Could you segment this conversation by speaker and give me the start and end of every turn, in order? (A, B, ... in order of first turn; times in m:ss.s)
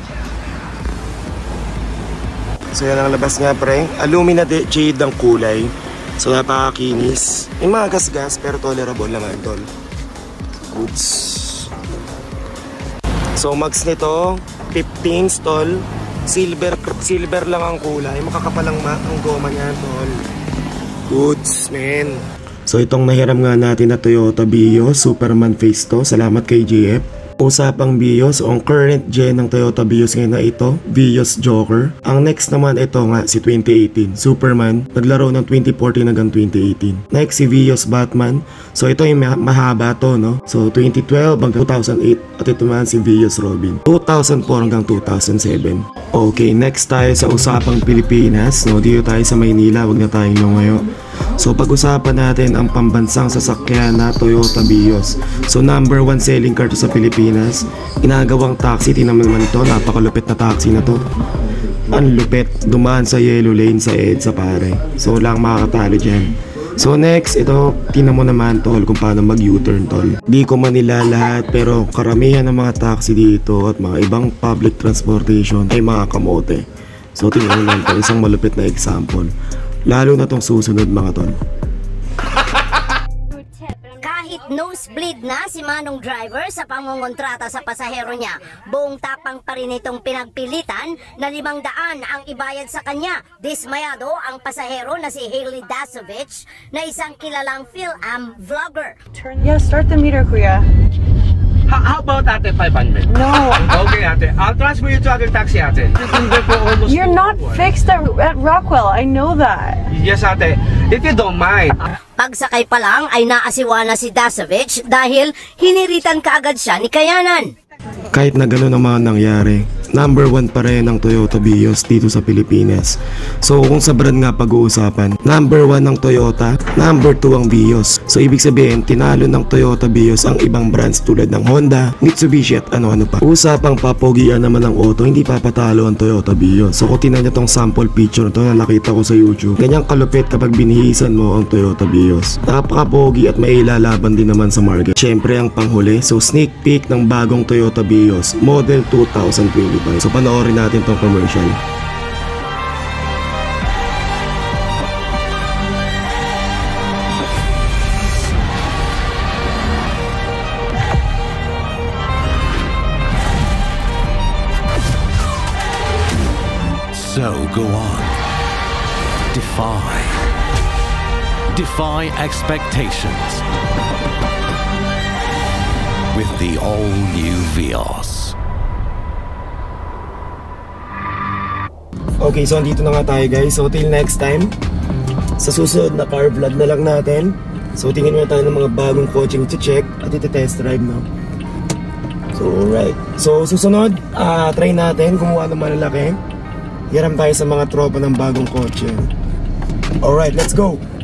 0:02.7-0:09.7 A
0:10.6-0:11.7 A
0:13.4-0:20.2 A
0:21.1-0:50.8 A
0:51.4-1:01.0 A
1:01.9-1:19.3 A
1:19.9-1:21.4 A
1:24.0-1:39.0 B
1:39.2-1:40.7 C
1:41.7-1:47.7 D
1:43.1-1:43.8 C
1:46.9-1:49.8 C
1:49.9-1:51.8 D
1:52.2-1:57.5 B
1:58.1-2:31.6 A
2:46.9-2:48.2 E
2:49.3-2:50.3 E
2:51.5-2:53.4 E
2:56.1-2:58.4 E
3:02.2-3:04.5 A
3:05.4-3:11.1 A
3:12.4-3:16.2 A
3:16.9-3:19.1 A
3:20.0-3:20.8 A